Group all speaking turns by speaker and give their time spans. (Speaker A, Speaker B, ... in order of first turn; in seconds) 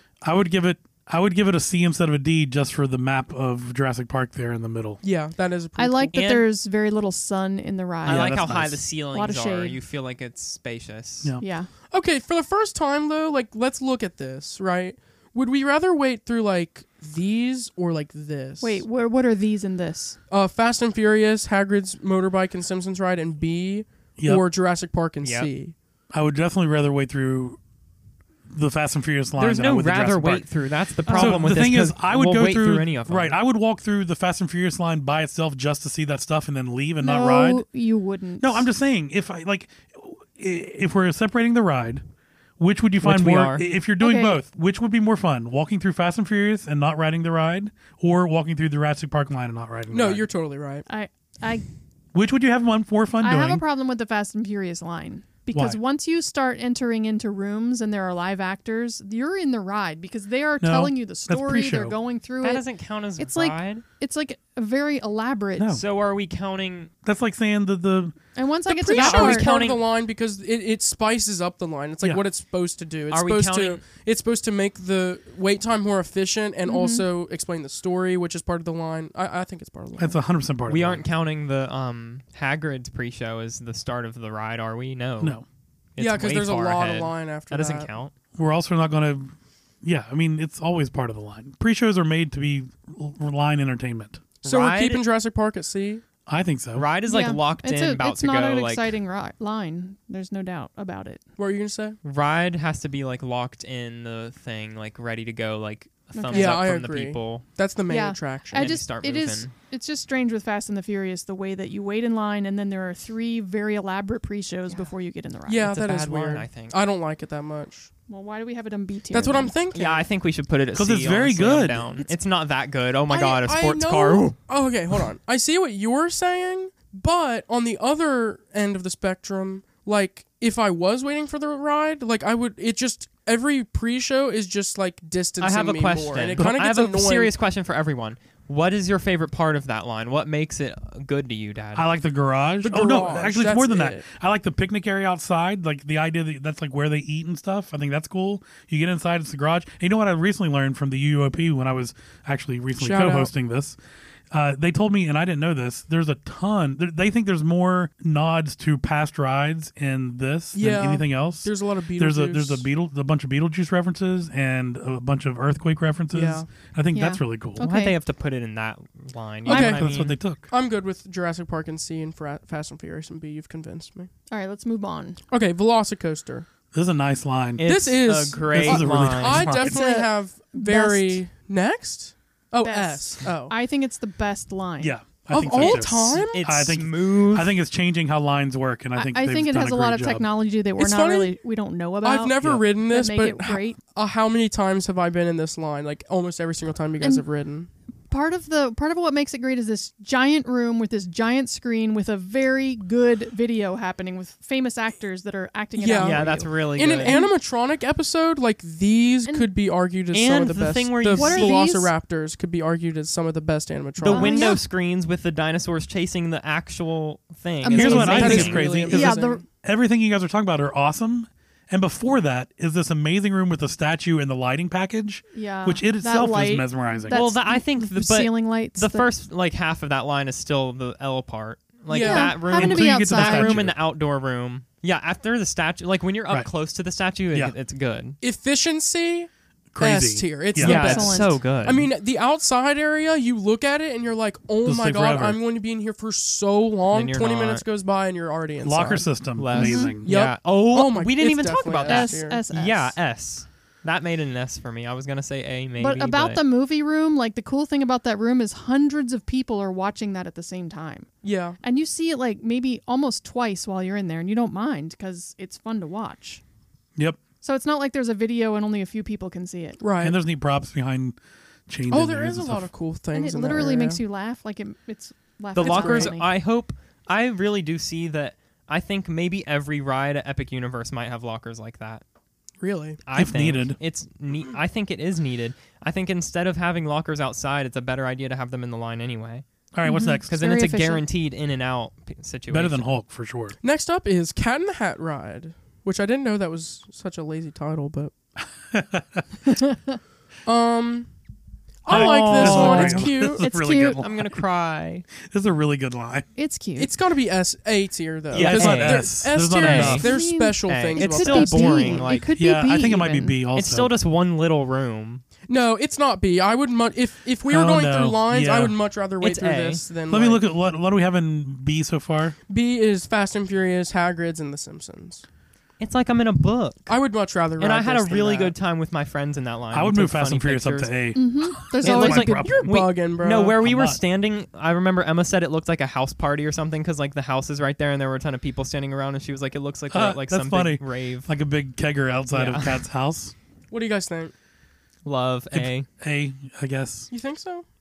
Speaker A: 0.2-5.0, 8.0-8.8, 24.2-24.4, 26.1-27.6, 28.5-30.5, 31.0-37.6, 38.4-42.0, 42.6-50.2, 52.1-53.6, 55.5-55.8, 60.6-62.0, 65.6-65.8, 67.0-68.2, 80.0-81.0, 88.3-94.2, 96.3-96.8, 120.7-122.0, 141.7-153.8, 154.3-167.6, 169.5-170.4, 176.7-177.7, 178.5-179.8, 184.8-190.2, 217.7-227.2, 232.5-233.8, 239.7-240.7, 244.6-245.4, 248.6-250.1, 270.0-271.2, 271.7-272.7, 283.1-283.8, 289.7-290.3, 292.5-293.6, 298.7-299.2, 301.9-304.4, 305.1-306.2, 308.3-310.1, 312.4-313.9, 317.5-318.8, 320.1-322.4, 329.7-332.7, 333.6-334.0, 339.9-343.3, 345.5-347.1
Speaker B: 5.0-6.2, 11.9-18.8, 20.3-25.7, 49.9-50.8, 68.7-80.2, 86.0-87.9, 94.4-96.0, 101.4-102.0, 106.3-108.7, 115.5-117.9, 119.1-120.0, 123.1-137.3, 142.6-144.0, 152.8-153.3, 160.5-162.7, 166.1-166.5, 169.5-169.9, 170.5-174.1, 175.3-176.5, 177.6-183.5, 185.3-186.4, 190.8-191.3, 192.0-197.7, 205.8-214.5, 217.8-219.4, 231.9-232.4, 238.2-249.1, 250.0-252.4, 261.2-261.6, 269.8-270.2, 271.9-274.0, 275.5-276.1, 282.6-283.0, 293.6-298.1, 300.4-301.1, 301.8-303.4, 306.8-312.2, 315.5-320.4, 322.5-325.2, 326.9-328.5, 332.4-333.6, 343.7-344.3, 347.1-347.6
Speaker C: 5.8-8.5, 9.1-9.8, 11.4-11.7, 18.6-20.2, 31.1-31.5, 37.0-38.7, 44.0-44.4, 50.9-51.6, 53.2-62.6, 63.2-65.7, 68.3-69.5, 76.6-77.0, 97.0-101.2, 106.1-106.6, 107.9-115.7, 118.1-119.5, 166.9-167.9, 174.3-175.2, 179.5-181.2, 182.6-184.9, 188.9-193.8, 198.1-207.3, 211.1-211.9, 214.0-214.6, 217.6-219.4, 225.3-229.1, 231.9-233.6, 240.6-241.4, 249.5-249.9, 251.8-252.9, 255.8-261.1, 261.6-266.4, 267.4-269.8, 273.1-276.3, 289.8-291.0, 299.5-300.0, 301.9-304.0, 306.4-306.9, 309.9-313.4, 331.1-332.5
Speaker D: 6.1-6.5, 8.0-11.3, 25.2-25.5, 29.4-33.3, 43.0-43.6, 62.4-63.8, 65.7-66.9, 68.9-69.8, 73.1-73.8, 80.7-85.4, 86.0-88.1, 94.4-95.0, 96.7-98.9, 102.0-107.4, 108.5-109.5, 115.6-116.8, 119.7-124.3, 135.4-141.9, 167.6-170.2, 177.6-179.5, 185.5-187.5, 205.9-207.2, 210.1-211.7, 214.0-218.9, 227.1-238.2, 240.6-241.8, 246.9-247.6, 249.3-256.4, 275.5-282.0, 283.0-289.4, 290.3-292.9, 302.4-302.8, 304.0-305.1, 308.3-312.3, 313.5-315.2, 319.2-319.8, 325.8-326.9, 327.6-330.9, 331.8-341.3, 342.3-342.8, 345.0-345.9